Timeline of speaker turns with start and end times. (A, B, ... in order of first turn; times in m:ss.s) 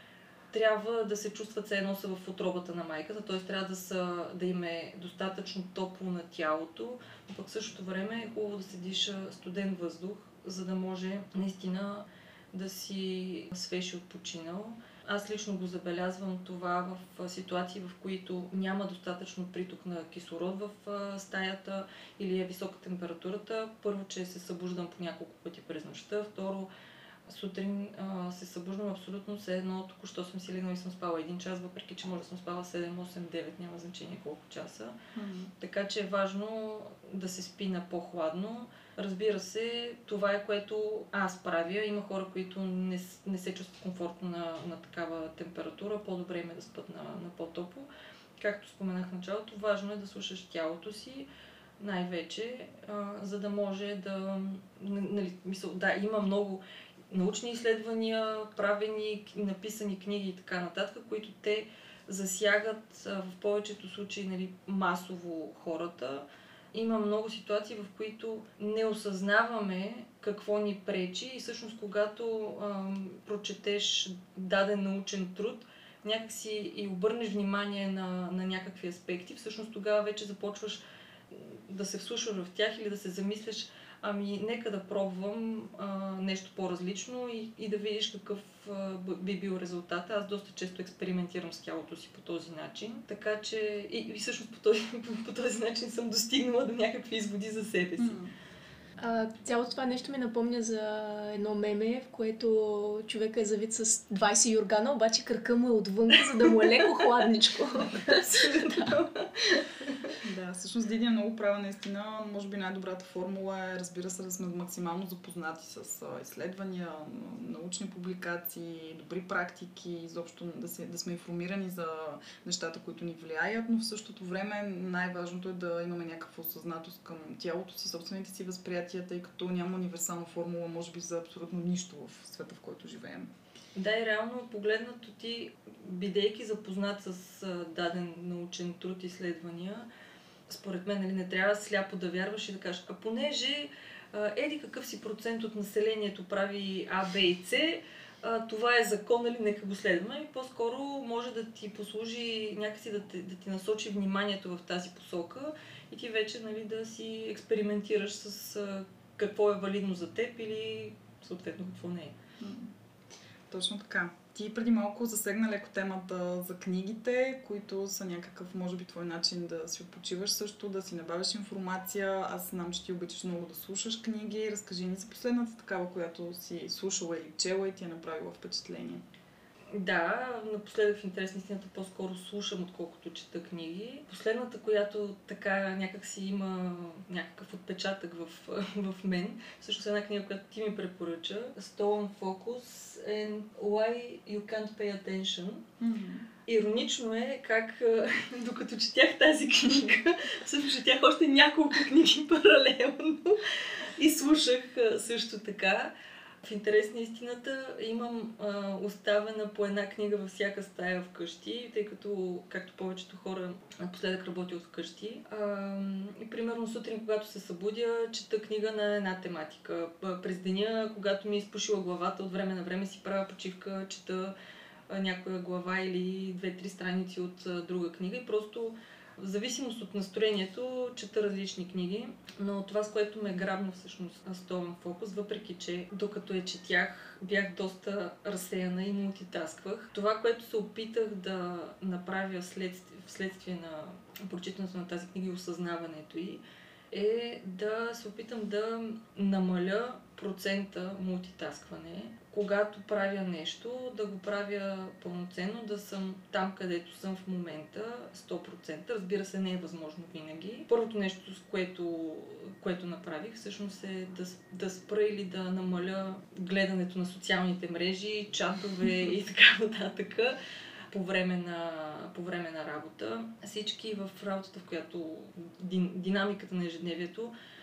0:00.5-0:26.7 A
0:27.3-0:35.0 A
0:35.1-0:35.5 B
0:35.6-0:51.3 A
0:51.8-1:38.2 A
1:38.0-1:38.3 B
1:39.0-1:48.7 C
1:48.1-1:50.2 A
1:50.2-2:13.3 B
2:13.7-2:19.9 A
2:20.5-2:42.1 A
2:42.4-2:42.7 B
2:43.5-2:59.0 B
2:59.7-3:15.6 A
3:15.8-3:16.3 B
3:16.5-3:25.9 A
3:26.4-3:44.3 A
3:44.9-4:30.4 A
4:30.9-4:37.3 A